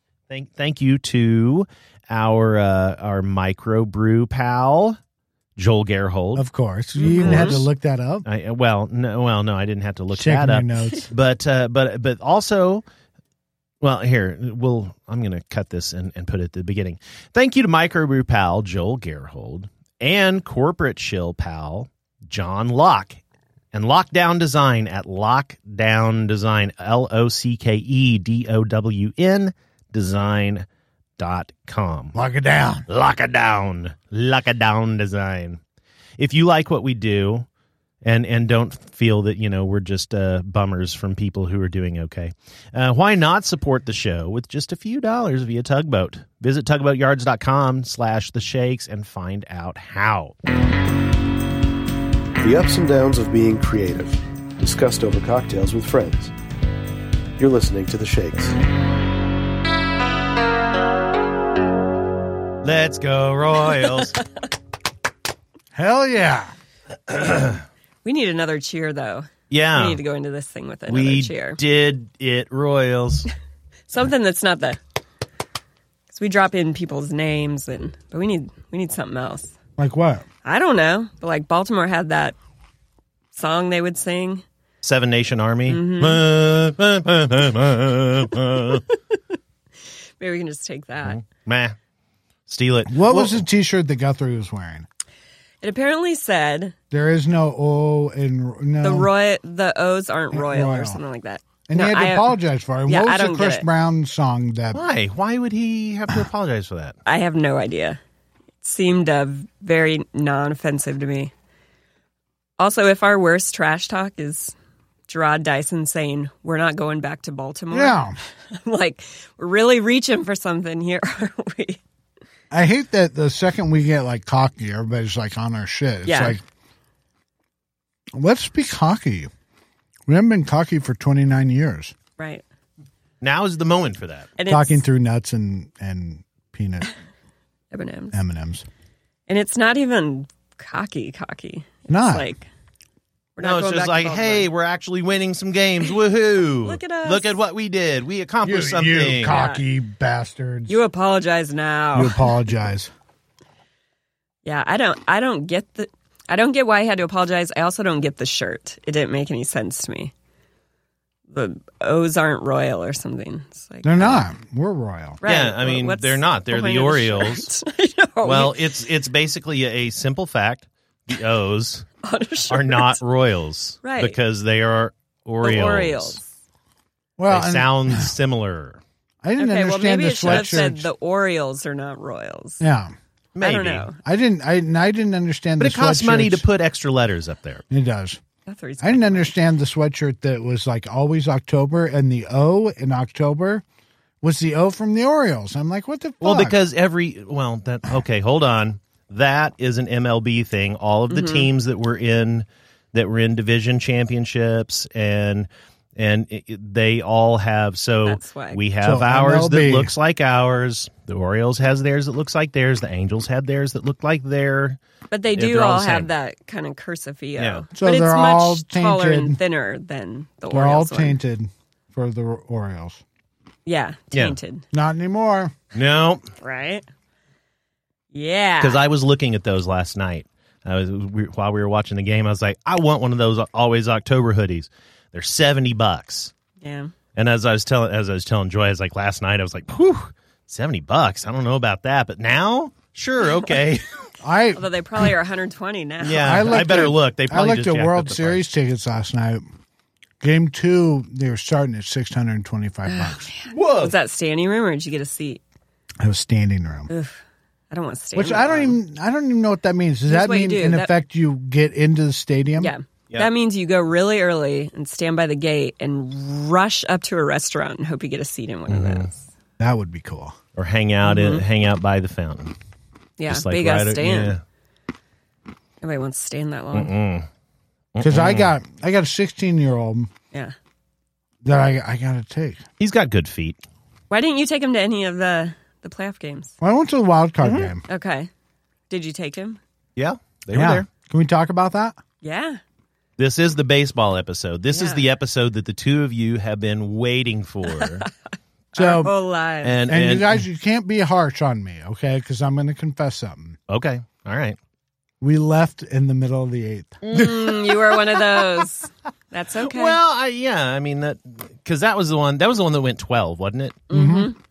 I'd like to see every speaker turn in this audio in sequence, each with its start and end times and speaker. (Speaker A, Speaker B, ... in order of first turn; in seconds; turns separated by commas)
Speaker A: 0.3-5.0, Speaker A: 5.6-6.5, Speaker B: 6.4-8.3, Speaker C: 7.0-7.6, Speaker A: 7.2-7.7, Speaker A: 8.2-12.8, Speaker B: 10.1-11.1, Speaker A: 13.8-23.2, Speaker A: 23.7-30.7, Speaker A: 31.2-32.2, Speaker B: 32.1-32.9, Speaker A: 32.9-35.6, Speaker A: 36.2-37.5, Speaker A: 38.0-50.4, Speaker D: 52.4-56.3, Speaker D: 57.4-58.6, Speaker A: 62.6-64.2, Speaker B: 65.7-66.5, Speaker A: 67.1-67.6, Speaker C: 68.0-71.6, Speaker A: 69.5-70.0, Speaker A: 70.9-73.3, Speaker C: 73.9-74.8, Speaker C: 76.1-79.5, Speaker B: 79.8-80.3, Speaker C: 80.4-82.3, Speaker C: 83.3-84.4, Speaker A: 84.8-88.8, Speaker C: 85.7-86.2, Speaker C: 90.2-91.2, Speaker A: 91.0-91.8, Speaker A: 92.5-93.5, Speaker B: 92.9-94.9, Speaker C: 95.6-96.8, Speaker B: 96.9-99.1, Speaker C: 98.8-103.7, Speaker B: 100.3-101.0, Speaker B: 101.7-104.8, Speaker A: 104.7-107.0, Speaker C: 107.1-108.0, Speaker C: 108.6-111.3, Speaker C: 112.6-114.5, Speaker C: 115.1-121.8, Speaker B: 117.7-118.2, Speaker B: 122.5-126.4, Speaker C: 126.1-126.4, Speaker B: 128.1-129.3, Speaker B: 130.1-131.9, Speaker C: 132.2-132.4, Speaker A: 133.2-134.3, Speaker C: 134.4-134.8, Speaker B: 134.5-136.9, Speaker C: 137.7-138.2, Speaker B: 138.1-138.7, Speaker C: 139.3-142.5, Speaker B: 141.9-142.3, Speaker C: 143.4-144.5, Speaker A: 143.4-149.4, Speaker C: 146.6-147.4, Speaker B: 148.4-150.7, Speaker C: 149.2-149.6, Speaker C: 150.7-152.2, Speaker B: 152.0-152.9, Speaker C: 154.4-160.1, Speaker C: 161.3-164.2, Speaker B: 163.8-165.2, Speaker C: 165.2-168.8, Speaker A: 165.2-167.5, Speaker A: 168.2-171.9, Speaker C: 172.0-173.0, Speaker A: 172.5-176.2, Speaker C: 173.8-174.2, Speaker C: 175.4-176.2, Speaker B: 177.2-178.1, Speaker A: 177.3-178.8, Speaker B: 179.2-180.9, Speaker C: 179.4-182.6, Speaker A: 180.2-180.7, Speaker B: 182.6-182.9, Speaker A: 183.3-183.9, Speaker C: 183.4-184.0, Speaker B: 184.0-186.4, Speaker A: 185.6-187.6, Speaker B: 187.7-188.2, Speaker C: 188.5-189.3, Speaker B: 188.8-193.6, Speaker B: 194.2-196.6, Speaker A: 196.2-214.8, Speaker C: 201.1-201.5, Speaker C: 208.1-208.6, Speaker B: 208.8-209.9, Speaker C: 215.1-221.2, Speaker A: 215.3-216.1, Speaker A: 217.4-217.7, Speaker B: 217.8-219.4, Speaker B: 220.5-223.0, Speaker C: 223.7-224.6, Speaker B: 224.7-225.5, Speaker A: 225.7-226.3, Speaker C: 226.4-226.8, Speaker C: 228.1-228.8, Speaker A: 228.6-236.3, Speaker C: 236.6-236.9, Speaker A: 237.2-244.1, Speaker B: 244.2-245.1, Speaker C: 244.5-246.4, Speaker A: 246.0-248.4, Speaker B: 246.2-249.4, Speaker B: 250.2-253.3, Speaker C: 252.9-255.4, Speaker A: 253.5-253.9, Speaker B: 256.0-256.9, Speaker C: 256.9-258.8, Speaker B: 258.2-262.7, Speaker C: 260.1-260.9, Speaker C: 262.6-269.2, Speaker A: 268.7-269.1, Speaker B: 269.6-270.4, Speaker A: 270.6-272.5, Speaker C: 271.0-271.4, Speaker C: 273.2-274.4, Speaker A: 273.3-274.4, Speaker C: 275.8-276.9, Speaker A: 276.7-277.3, Speaker A: 277.9-278.5, Speaker B: 278.0-280.1, Speaker B: 281.4-282.6, Speaker A: 282.8-283.6, Speaker C: 284.1-286.5, Speaker B: 286.6-287.8, Speaker A: 287.4-287.7, Speaker C: 287.9-288.3, Speaker C: 288.9-289.6, Speaker A: 290.0-290.9, Speaker B: 290.5-292.0, Speaker C: 292.2-292.6, Speaker A: 293.2-298.1, Speaker C: 294.7-295.0, Speaker C: 297.8-298.1, Speaker C: 298.7-299.8, Speaker B: 298.8-299.1, Speaker A: 299.6-300.4, Speaker B: 299.9-303.6, Speaker A: 303.7-304.6, Speaker B: 305.2-307.6, Speaker C: 307.0-310.0, Speaker A: 309.6-313.8, Speaker C: 313.9-314.4, Speaker B: 313.9-314.3